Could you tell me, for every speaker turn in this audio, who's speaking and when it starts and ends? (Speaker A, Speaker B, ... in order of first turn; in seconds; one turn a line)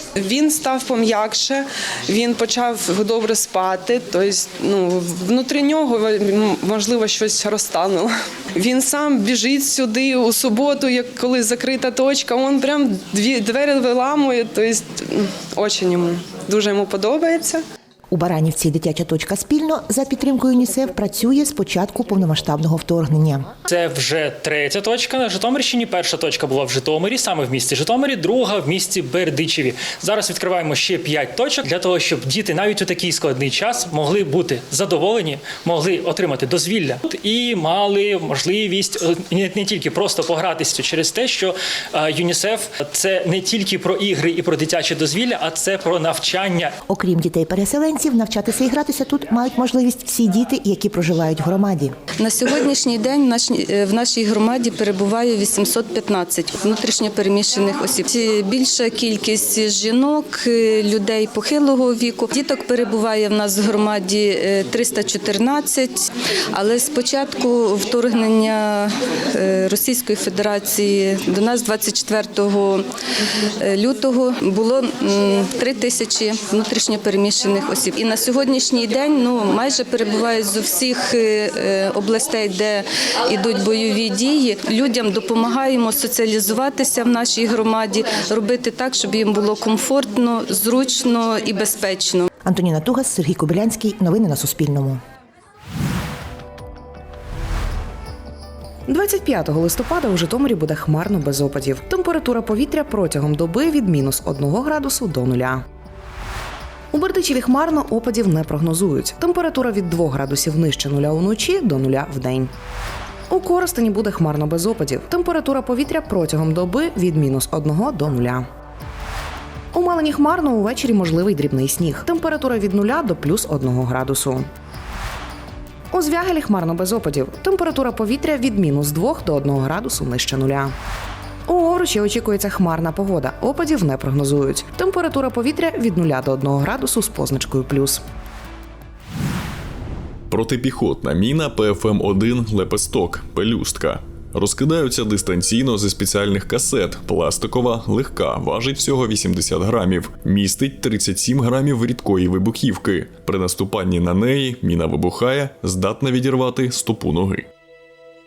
Speaker A: 0.2-17.6
Speaker B: 18.1-23.5
Speaker C: 23.7-46.8
Speaker B: 46.9-52.0
Speaker D: 52.2-66.0
Speaker D: 66.5-72.8
Speaker D: 73.6-92.2
Speaker B: 92.5-95.0
Speaker E: 98.9-105.6
Speaker E: 106.9-112.5
Speaker E: 113.3-118.5
Speaker E: 119.7-124.5
Speaker E: 125.9-130.7
Speaker E: 131.5-138.0
Speaker F: 140.3-157.5